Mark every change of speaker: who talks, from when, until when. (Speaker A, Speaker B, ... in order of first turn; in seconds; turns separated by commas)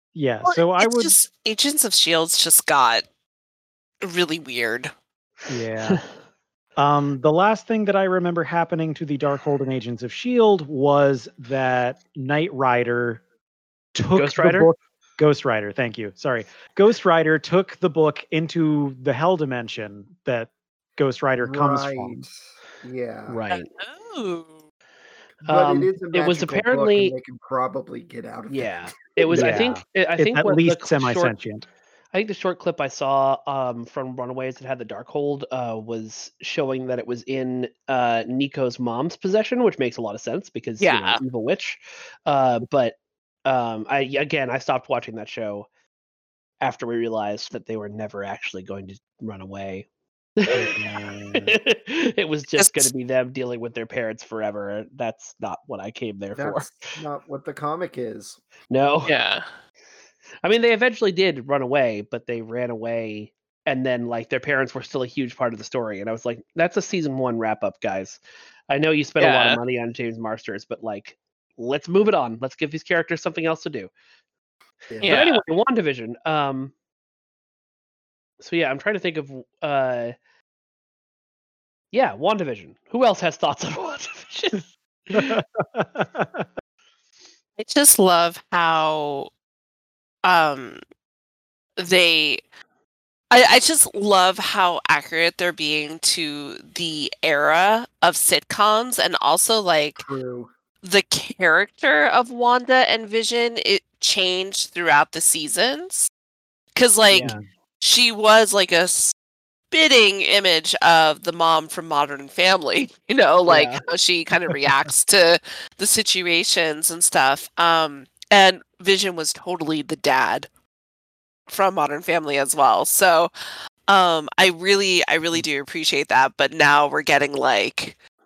Speaker A: 0.1-1.1, Speaker B: 0.4-3.0, Speaker B: 4.0-4.9, Speaker A: 5.5-6.0, Speaker A: 6.8-13.2, Speaker A: 13.9-22.2, Speaker C: 14.1-14.7, Speaker D: 21.4-23.4, Speaker C: 23.3-23.7, Speaker B: 23.7-24.6, Speaker C: 25.4-27.1, Speaker D: 25.4-29.7, Speaker C: 28.5-31.3, Speaker A: 29.3-31.6, Speaker C: 32.1-42.9, Speaker B: 40.8-41.2, Speaker C: 43.5-45.7, Speaker C: 46.6-49.9, Speaker C: 50.4-50.8, Speaker A: 50.5-51.5, Speaker C: 51.4-56.7, Speaker B: 52.6-52.9, Speaker D: 56.3-58.4, Speaker C: 58.7-59.1, Speaker B: 59.1-59.4, Speaker C: 60.4-73.9, Speaker B: 69.2-69.6, Speaker D: 74.9-75.2, Speaker B: 75.0-75.4, Speaker C: 75.0-76.7, Speaker C: 78.4-80.1, Speaker C: 81.9-85.2, Speaker A: 85.1-86.5, Speaker B: 87.6-89.3, Speaker B: 90.2-90.8, Speaker B: 91.8-92.4, Speaker B: 93.3-100.1, Speaker D: 100.0-100.5, Speaker B: 100.8-106.1, Speaker B: 106.7-109.1, Speaker C: 107.1-107.4, Speaker B: 109.7-120.5, Speaker C: 113.5-113.8, Speaker B: 121.5-123.3, Speaker B: 123.9-128.0